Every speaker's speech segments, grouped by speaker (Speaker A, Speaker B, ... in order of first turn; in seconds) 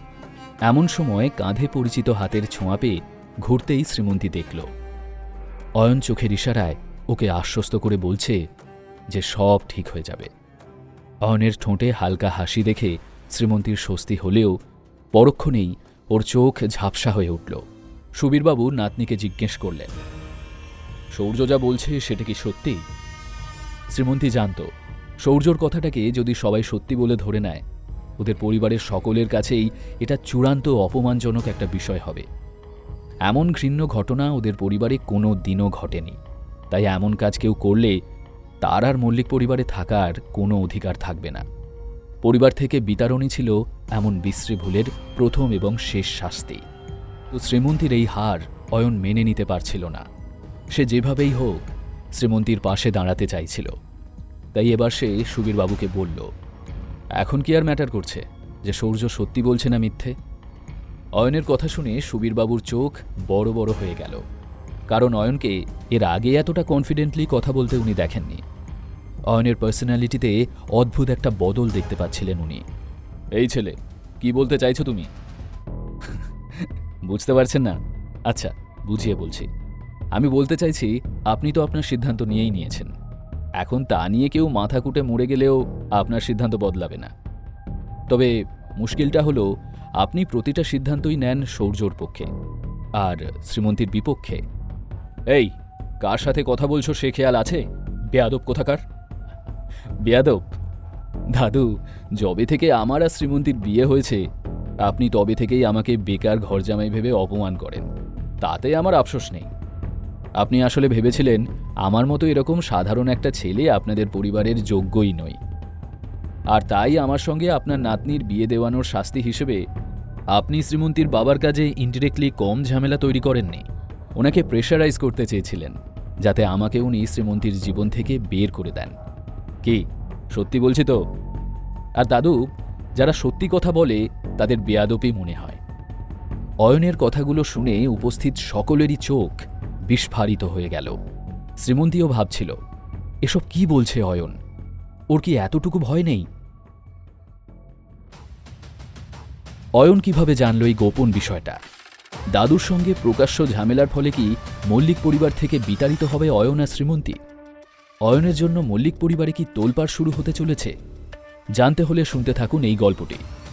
Speaker A: 0.7-4.7, 5.8-8.4, 9.1-10.3, 11.2-14.5, 15.1-17.6, 18.2-19.9, 21.1-22.8, 23.9-24.6, 25.2-27.6, 28.2-32.2, 33.3-36.2, 36.7-38.0, 38.6-41.4, 42.2-46.6, 47.3-50.0, 50.7-51.6, 52.2-53.7, 54.5-56.3, 57.2-60.1, 61.2-64.2, 64.9-68.4, 69.3-72.6, 73.3-75.1, 76.0-77.8, 78.3-79.5, 80.1-82.9, 83.6-87.1, 88.1-89.5, 90.0-92.3, 93.0-94.4, 95.3-98.8, 100.0-100.4, 101.3-104.2, 104.8-107.9, 108.4-109.5, 110.4-115.4, 116.5-119.6, 120.3-123.6, 124.2-128.9, 129.6-131.0, 132.0-132.4, 133.0-135.6, 136.6-140.9, 141.6-142.6, 143.2-144.4, 145.1-146.3, 149.8-151.6, 152.3-157.2, 158.1-160.7, 161.6-163.2